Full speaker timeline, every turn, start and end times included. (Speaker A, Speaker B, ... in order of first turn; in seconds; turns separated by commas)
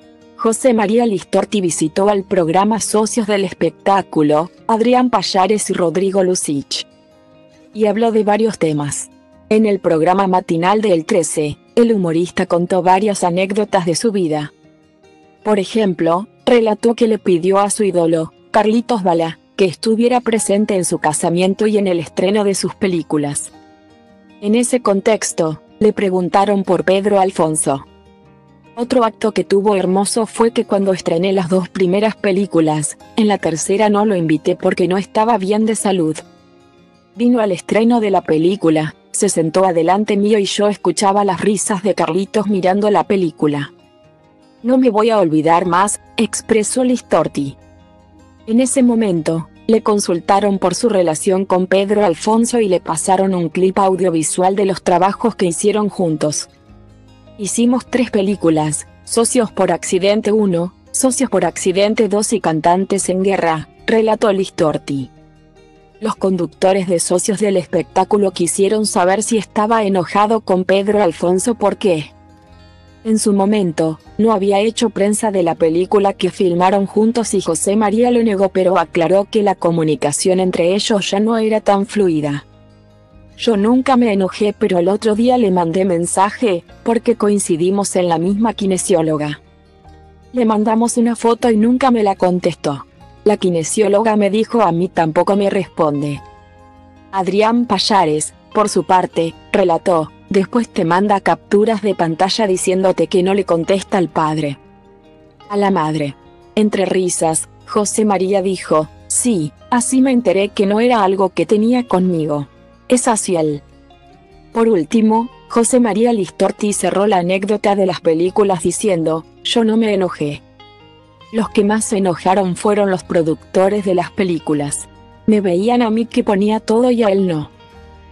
Speaker A: 0.4-6.9, Speaker A: 7.7-14.5, Speaker A: 15.4-23.5, Speaker A: 24.4-27.9, Speaker A: 28.8-36.2, Speaker A: 37.1-43.7, Speaker A: 44.6-47.6, Speaker A: 48.5-56.5, Speaker A: 57.4-65.1, Speaker A: 66.0-72.1, Speaker A: 73.0-82.5, Speaker A: 83.4-89.4, Speaker A: 90.3-96.2, Speaker A: 97.1-104.6, Speaker A: 105.5-113.6, Speaker A: 114.5-120.4, Speaker A: 121.3-127.5